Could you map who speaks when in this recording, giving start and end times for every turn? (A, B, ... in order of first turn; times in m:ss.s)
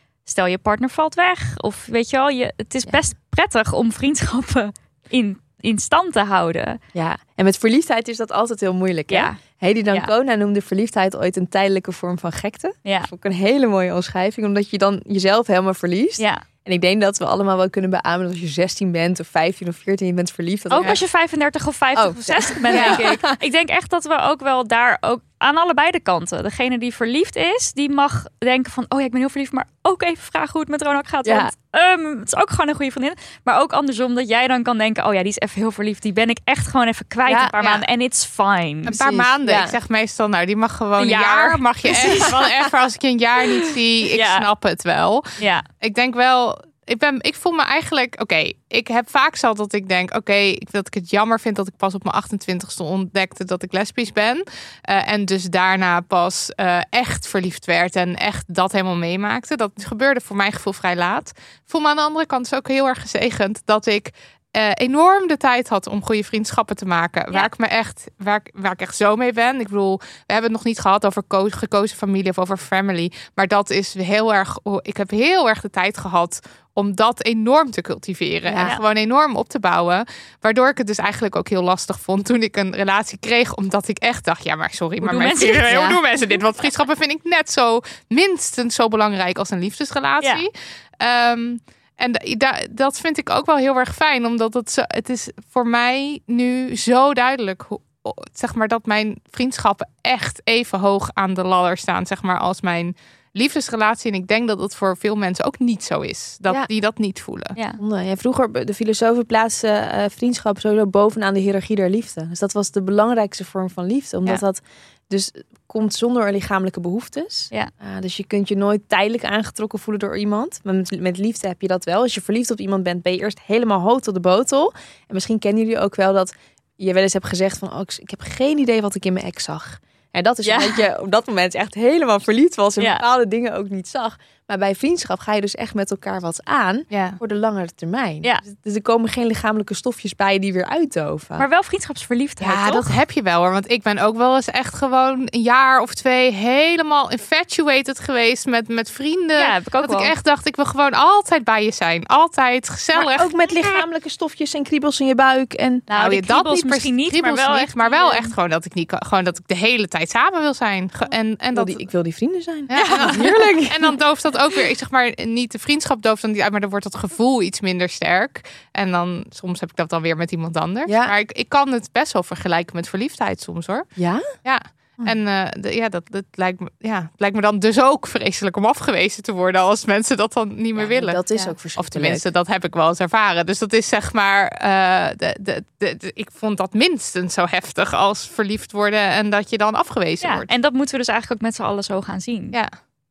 0:00.2-0:06.8 A
0:06.9-0:21.0 B
0:09.1-0:09.4 A
0:12.8-0:13.1 A
0:16.2-0:16.4 A
0:20.7-0:39.0 A
0:22.0-0:23.4 B
0:22.7-0:23.0 C
0:31.2-0:31.5 B
0:37.2-0:37.5 B
0:37.6-0:37.8 C
0:38.8-1:47.6 C
0:38.9-0:39.7 B
0:41.0-0:42.7 A
0:43.6-0:44.5 A
0:45.4-0:45.6 A
1:18.5-1:18.8 B
1:25.0-1:26.0 A
1:47.8-2:21.4 B
2:10.4-2:10.8 A
2:12.8-2:13.0 A
2:16.9-2:17.2 C
2:21.4-2:22.9 A
2:22.4-2:33.5 C
2:29.4-2:30.1 A
2:33.0-2:35.9 B
2:35.9-2:38.3 A
2:35.9-2:41.8 C
2:41.5-2:44.0 B
2:42.7-2:53.9 C
2:42.7-2:43.2 A
2:50.8-2:51.1 B
2:54.0-2:54.2 B
2:54.4-3:01.2 C
3:00.8-3:02.2 B
3:01.7-3:10.5 C
3:10.2-3:12.6 A